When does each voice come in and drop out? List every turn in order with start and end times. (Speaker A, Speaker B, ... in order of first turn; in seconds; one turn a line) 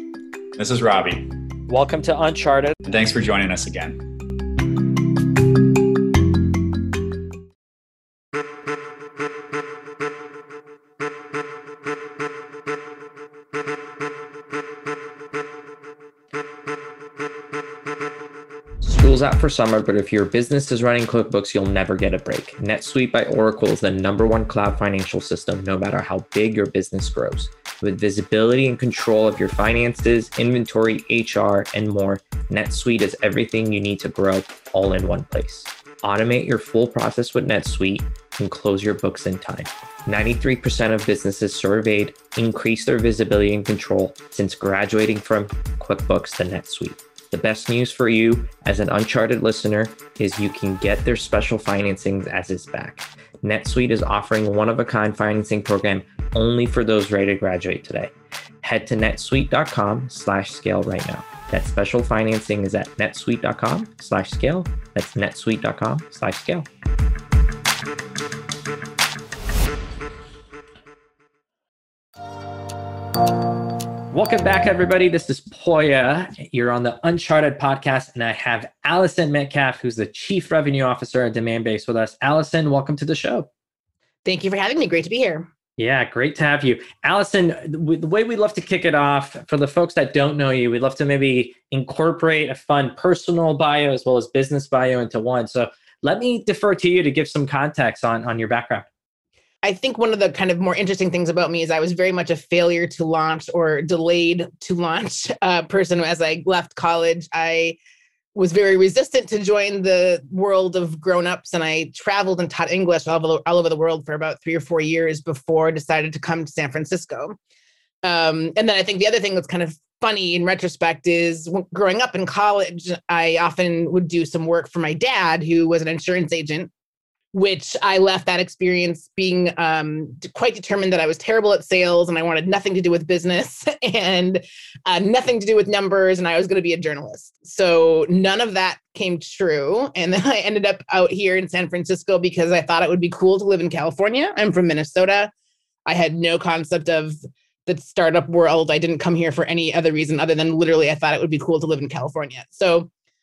Speaker A: 0.6-1.3
Speaker B: 1.7-2.7
Speaker A: 2.8-4.0
Speaker B: 18.8-66.7
Speaker B: 74.1-83.5
Speaker C: 84.2-85.5
Speaker B: 85.8-98.9
Speaker C: 99.6-107.8
Speaker C: 108.3-117.4
Speaker C: 118.0-126.7
Speaker C: 127.3-145.3
Speaker C: 145.9-152.9